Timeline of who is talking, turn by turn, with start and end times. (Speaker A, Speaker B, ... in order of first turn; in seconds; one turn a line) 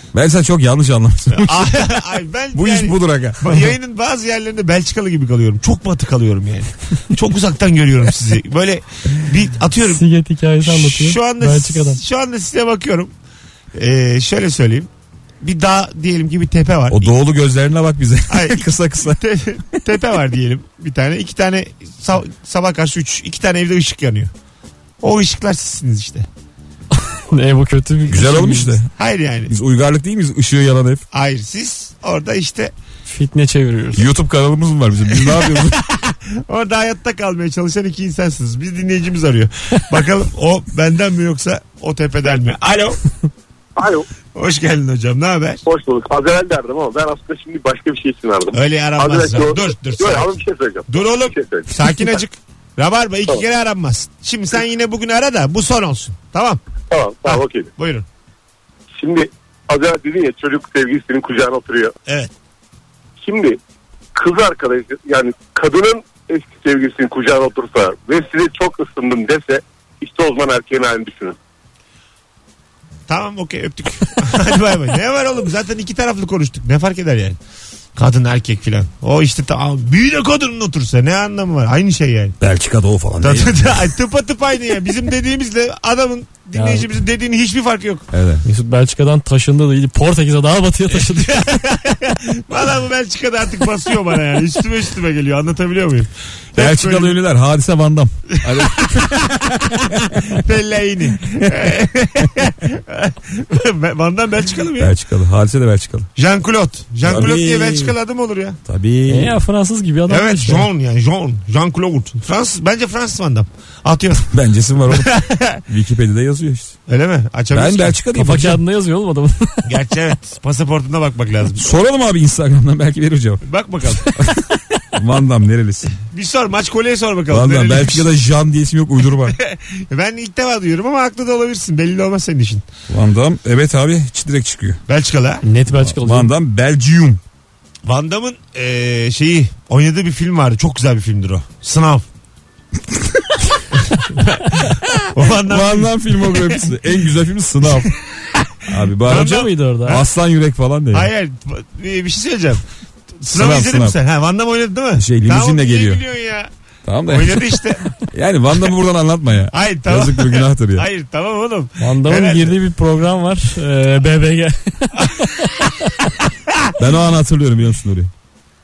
Speaker A: 0.1-3.6
Speaker B: 1.3-10.0
Speaker C: 9.9-12.0
Speaker B: 10.6-13.1
Speaker B: 13.8-14.9
Speaker B: 15.4-17.1
Speaker A: 16.9-19.2
Speaker B: 18.3-24.3
Speaker B: 25.0-26.3
Speaker C: 27.1-28.8
Speaker A: 28.1-28.9
Speaker B: 29.0-29.5
Speaker A: 29.5-31.1
Speaker B: 31.1-32.7
Speaker C: 33.1-34.1
Speaker A: 34.0-35.8
Speaker B: 35.1-43.0
Speaker B: 44.3-45.6
Speaker D: 45.7-51.6
Speaker B: 48.5-56.6
Speaker D: 56.9-57.7
Speaker B: 57.3-58.1
Speaker D: 59.0-61.9
Speaker B: 62.1-62.3
Speaker D: 63.2-63.6
Speaker D: 64.2-71.3
Speaker B: 73.1-77.4
Speaker B: 78.0-82.4
Speaker A: 82.4-83.9
Speaker B: 83.2-88.1
Speaker C: 86.5-86.9
Speaker A: 88.1-88.5
Speaker C: 88.5-91.5
Speaker B: 91.0-97.2
Speaker A: 96.5-100.4
Speaker B: 98.4-104.9
Speaker A: 101.4-101.7
Speaker A: 104.8-106.1
Speaker B: 106.2-108.6
Speaker A: 107.0-108.0
Speaker A: 108.7-109.4
Speaker C: 109.1-110.7
Speaker B: 110.1-114.3
Speaker A: 114.3-116.8
Speaker B: 114.9-115.6
Speaker B: 116.9-118.0
Speaker A: 117.5-118.6
Speaker C: 118.1-119.7
Speaker B: 119.7-121.7
Speaker A: 121.6-123.4
Speaker B: 123.5-124.1
Speaker A: 124.0-125.9
Speaker B: 126.1-128.1
Speaker A: 127.3-129.4
Speaker B: 129.3-132.7
Speaker A: 132.9-134.8
Speaker B: 134.9-135.4
Speaker C: 135.4-136.3
Speaker A: 135.7-137.2
Speaker B: 137.8-142.1
Speaker A: 142.9-143.5
Speaker B: 143.9-146.6
Speaker A: 145.2-147.9
Speaker A: 148.7-151.1
Speaker B: 149.1-150.1
Speaker C: 149.1-150.0
Speaker B: 150.9-152.6
Speaker B: 153.2-156.5
Speaker A: 153.3-154.0
Speaker A: 155.0-156.0
Speaker A: 156.8-160.9
Speaker B: 157.1-157.9
Speaker B: 159.5-162.6
Speaker C: 161.8-165.9
Speaker A: 166.8-168.1